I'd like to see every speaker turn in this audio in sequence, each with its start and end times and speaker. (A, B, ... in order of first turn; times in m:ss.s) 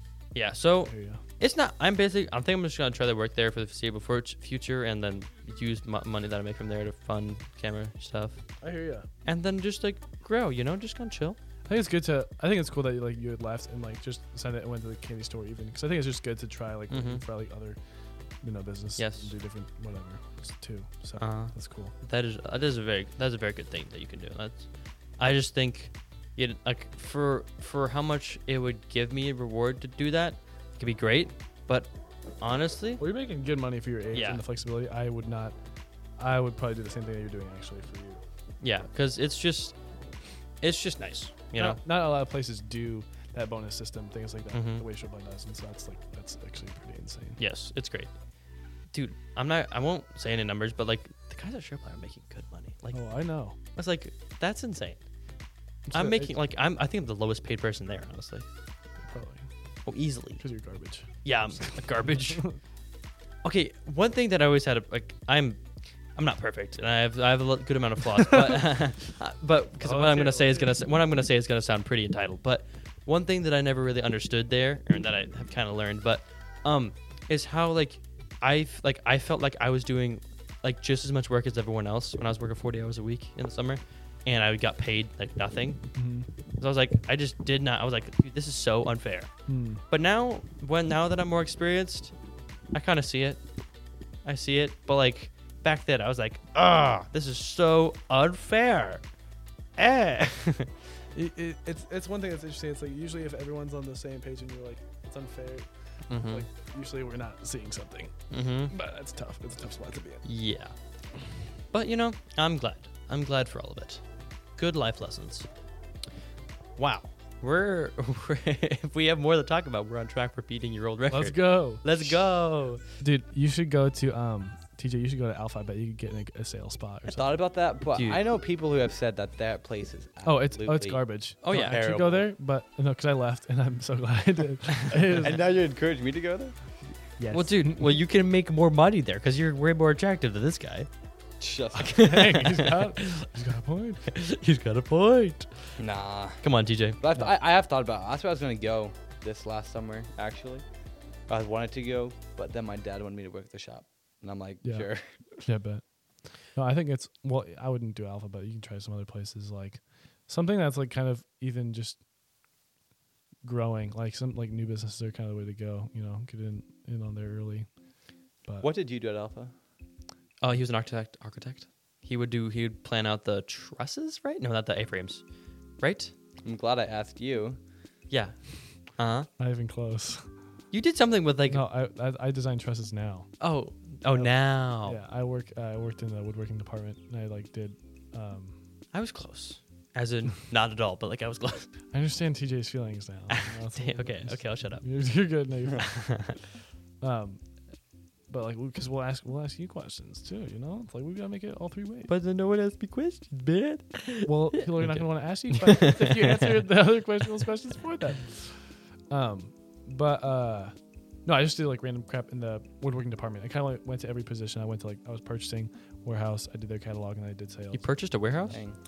0:00.3-0:08.4 A
0:00.9-0:01.2 B
0:08.6-0:09.1 B
0:09.3-0:11.4 A
0:11.7-0:17.8 B
0:16.9-0:17.2 A
0:18.4-0:21.9 B
0:19.0-0:19.3 A
0:21.2-0:24.7 A
0:25.2-0:33.0 A
0:33.0-0:35.6 B
0:34.1-0:34.4 A
0:36.2-0:38.2 B
0:38.6-0:39.8 A
0:40.6-0:41.8 A
0:41.6-0:47.4 B
0:44.5-0:44.8 A
0:47.4-0:48.1 A
0:48.9-0:53.0 A
0:52.9-0:53.6 B
0:53.7-0:55.0 A
0:55.9-0:56.3 B
0:55.9-0:58.5 A
0:59.0-0:59.5 B
0:59.9-1:00.4 A
1:00.4-1:02.6 B
1:01.2-1:02.4 A
1:03.4-1:05.6 A
1:06.2-1:25.8 A
1:09.8-1:10.8 B
1:26.0-1:26.3 B
1:26.6-1:29.3 A
1:29.5-1:29.8 B
1:29.9-1:32.1 A
1:32.7-1:33.4 A
1:34.2-1:39.0 A
1:39.8-1:40.7 A
1:41.1-1:48.1 B
1:46.1-1:46.4 A
1:48.3-1:48.7 A
1:48.7-1:50.2 B
1:50.2-1:50.7 A
1:51.7-1:54.0 A
1:54.6-1:55.5 A
1:56.8-2:02.8 A
2:01.1-2:02.2 B
2:03.0-2:07.3 B
2:07.1-2:12.3 C
2:07.9-2:08.2 A
2:10.2-2:15.4 B
2:11.4-2:11.8 A
2:15.1-2:16.6 C
2:17.2-2:17.9 B
2:17.3-2:20.9 A
2:21.4-2:22.0 C
2:21.8-2:23.3 A
2:21.9-2:24.1 B
2:24.1-2:25.8 A
2:25.8-2:26.4 C
2:26.4-2:27.0 A
2:27.0-2:30.6 C
2:31.3-2:35.5 C
2:34.6-2:34.9 B
2:35.4-2:35.8 B
2:36.5-2:42.0 B
2:43.4-2:47.7 B
2:48.6-2:49.5 C
2:50.4-2:55.2 A
2:55.8-2:56.1 A
2:56.4-2:57.6 C
2:58.1-2:58.4 A
2:59.0-2:59.3 A
2:59.4-3:00.2 B
3:00.7-3:01.6 A
3:01.5-3:03.3 B
3:03.4-3:05.0 A
3:04.8-3:08.6 B
3:08.9-3:11.7 A
3:11.9-3:16.0 B
3:13.3-3:14.8 A
3:15.8-3:16.4 A
3:17.0-3:17.4 B
3:18.3-3:22.1 B
3:22.1-3:26.5 A
3:24.2-3:30.7 B
3:31.3-3:37.9 B
3:37.7-3:38.6 A
3:38.5-3:38.8 C